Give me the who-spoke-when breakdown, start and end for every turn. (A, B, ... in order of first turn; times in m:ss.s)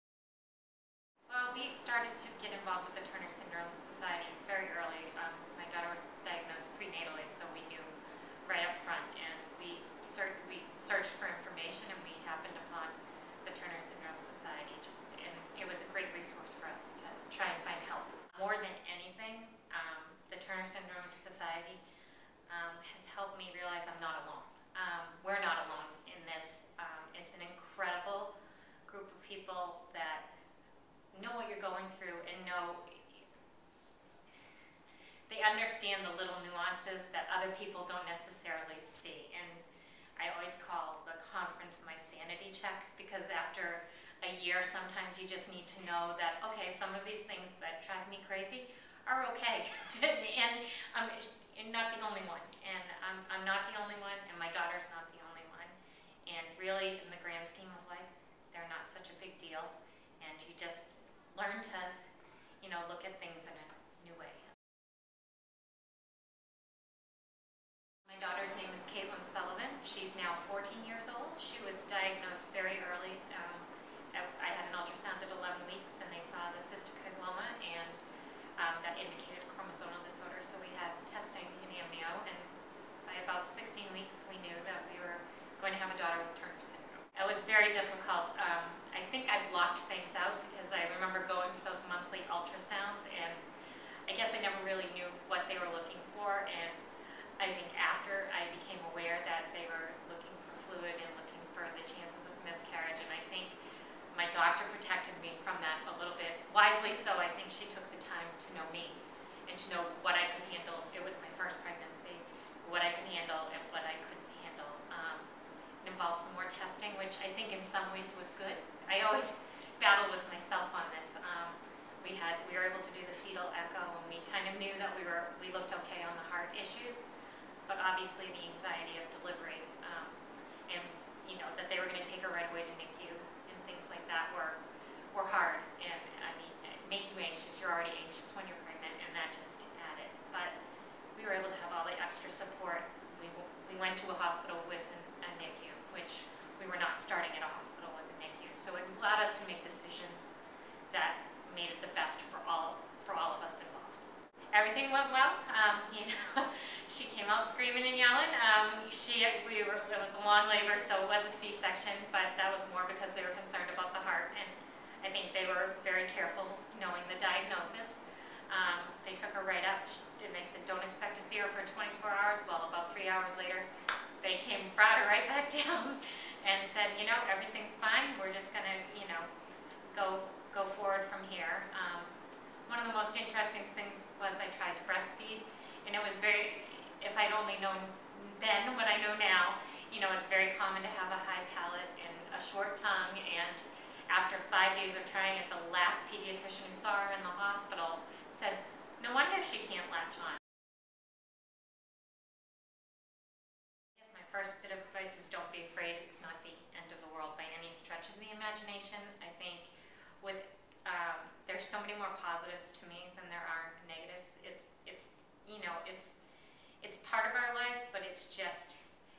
0:01.3-0:07.9 A
0:08.4-0:21.8 A
0:22.5-0:28.3 A
0:28.9-0:30.3 A
0:31.1-0:33.2 A
0:35.3-0:39.6 A
0:40.2-1:02.0 A
1:02.6-1:04.5 A
1:08.0-1:18.0 A
1:18.6-1:22.5 A
1:23.0-1:33.4 A
1:34.1-1:36.8 A
1:37.4-1:43.6 A
1:44.1-1:55.3 A
1:55.8-2:07.0 A
2:07.7-2:14.6 A
2:15.1-2:20.6 A
2:21.2-2:30.3 A
2:30.9-2:53.7 A
2:54.2-2:59.3 A
2:59.9-3:02.1 A
3:02.7-3:20.4 A
3:24.0-3:36.2 A
3:36.8-3:38.8 A